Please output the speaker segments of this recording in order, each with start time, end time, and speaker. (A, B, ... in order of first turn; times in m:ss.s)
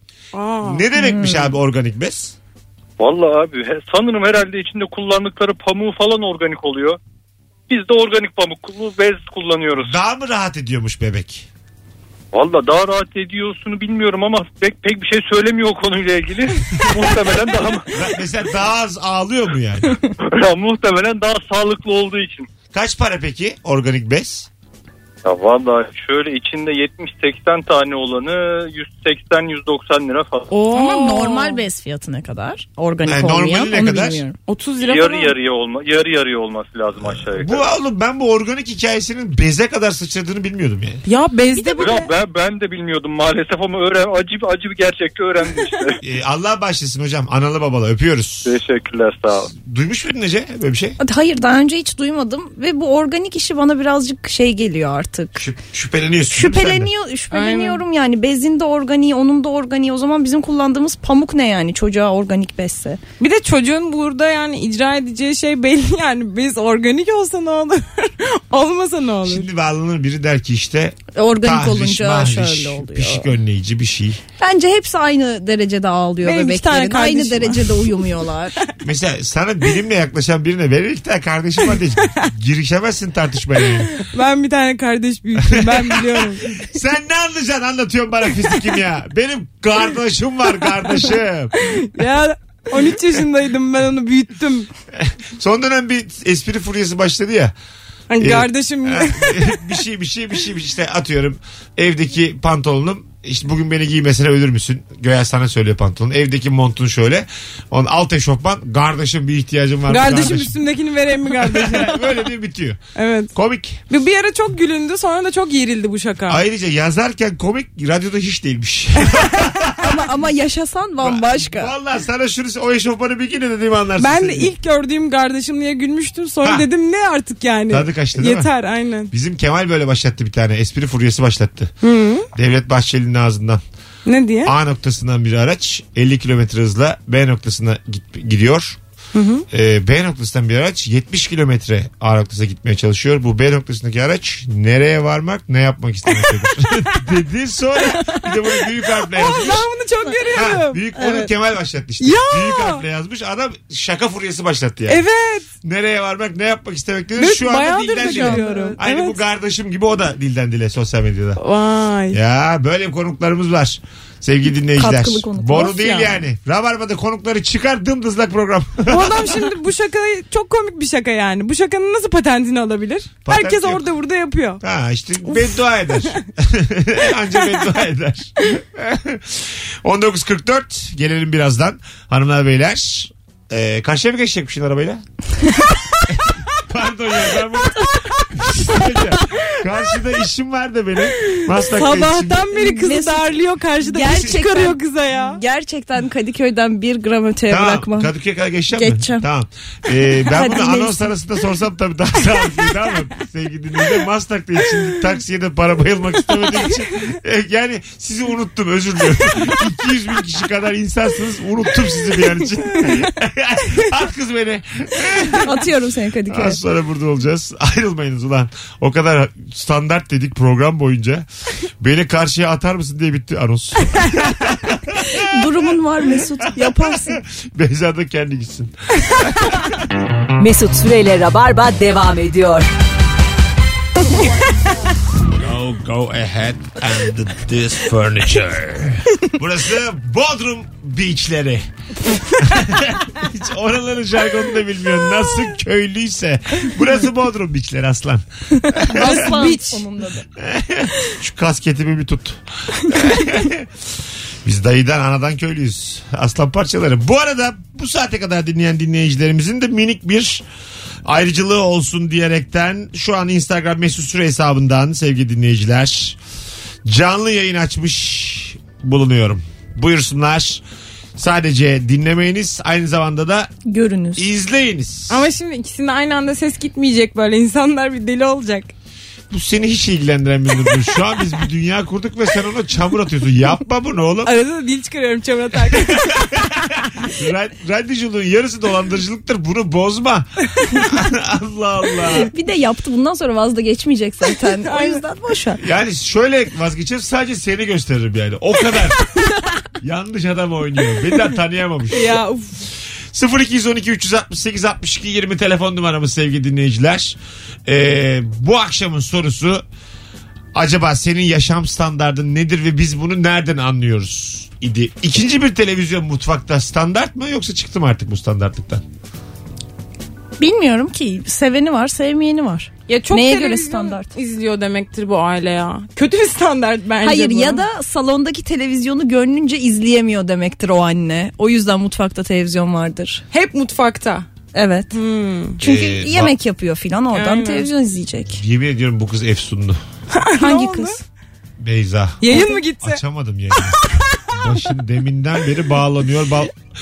0:00.3-0:00.8 A
0:00.6-0:02.4 B
0:01.0-0:01.4 C
0:03.0-0:07.0 D
0:07.7-0:10.0 D
0:09.8-0:11.5 B
0:12.3-0:17.9 D
0:17.9-0:20.0 B
0:20.2-0:22.5 D
0:22.7-0:24.5 B
0:25.2-0:30.5 D
0:30.5-0:31.6 A
0:30.6-0:34.4 C
0:33.0-0:34.2 B
0:34.5-0:35.3 A
0:34.8-0:37.7 D
0:37.4-0:41.0 B
0:41.0-0:42.0 A
0:41.5-0:42.0 C
0:41.8-0:46.0 D
0:46.0-0:48.5 B
0:48.4-0:49.5 D
0:49.5-0:51.0 B
0:51.0-0:55.4 C
0:55.4-0:56.9 B
0:56.3-1:03.0 C
0:57.3-0:57.8 A
1:03.2-1:09.5 A
1:09.2-1:14.2 B
1:11.1-1:13.3 C
1:14.4-1:18.5 C
1:16.2-1:18.2 A
1:18.8-1:23.9 B
1:23.9-1:26.6 A
1:25.4-1:31.7 B
1:31.6-1:34.7 A
1:34.9-1:37.5 B
1:38.1-1:39.7 A
1:38.2-1:50.5 B
1:49.9-1:52.1 A
1:51.3-1:52.8 B
1:53.0-1:53.3 A
1:53.3-1:53.8 B
1:53.9-1:56.4 A
1:56.3-1:59.9 B
1:59.8-2:01.7 C
2:01.0-2:04.5 B
2:04.0-2:09.1 A
2:07.7-2:08.5 B
2:09.1-2:11.7 B
2:11.8-2:12.3 A
2:12.3-2:13.6 B
2:14.0-2:14.5 A
2:14.4-2:18.8 B
2:19.1-2:19.4 A
2:19.5-2:29.7 B
2:29.1-2:31.3 A
2:30.3-2:35.0 B
2:32.0-2:32.8 A
2:34.9-2:35.5 A
2:35.6-2:41.4 B
2:37.2-2:39.2 A
2:37.9-2:38.8 C
2:41.4-2:42.2 A
2:42.1-2:49.5 B
2:44.8-2:46.2 C
2:48.9-2:54.6 A
2:53.2-2:53.8 B
2:54.6-3:05.0 B
3:06.1-3:12.5 B
3:07.8-3:08.2 A
3:11.4-3:15.4 A
3:12.5-3:13.3 C
3:13.8-3:18.1 C
3:17.5-3:35.6 B
3:18.7-3:19.2 C
3:20.2-3:21.1 C
3:35.4-3:36.6 C
3:36.3-3:41.2 B
3:41.8-3:45.5 B
3:45.1-3:47.2 C
3:46.5-3:48.7 B
3:49.4-3:49.8 B
3:50.4-3:52.7 E
3:55.3-4:01.6 B
4:02.4-4:09.5 B
4:08.8-4:10.2 C
4:08.9-4:09.8 A
4:10.4-4:13.7 B
4:14.4-4:20.4 B
4:21.0-4:26.2 B
4:26.8-4:30.6 B
4:31.2-4:33.5 B
4:33.6-4:34.3 C
4:34.2-4:35.3 B
4:35.1-4:38.7 A
4:39.3-4:44.3 B
4:44.2-4:46.8 A
4:45.7-4:52.3 B
4:52.2-4:55.6 C
4:54.4-4:55.0 A
4:55.6-4:59.1 B
4:59.8-5:02.2 B
5:01.9-5:02.6 A
5:03.1-5:09.6 B
5:10.5-5:18.8 B
5:20.4-5:24.1 C
5:22.9-5:27.6 A
5:27.0-5:33.2 C
5:33.3-5:34.3 A
5:34.5-5:35.0 C
5:34.9-5:35.6 A
5:35.6-5:38.4 C
5:35.6-5:36.3 B
5:37.1-5:37.7 A
5:38.3-5:39.8 B
5:40.1-5:41.0 A
5:40.4-5:41.0 C
5:41.6-5:46.5 B
5:42.2-5:43.0 A
5:42.3-5:42.6 C
5:43.7-5:44.2 A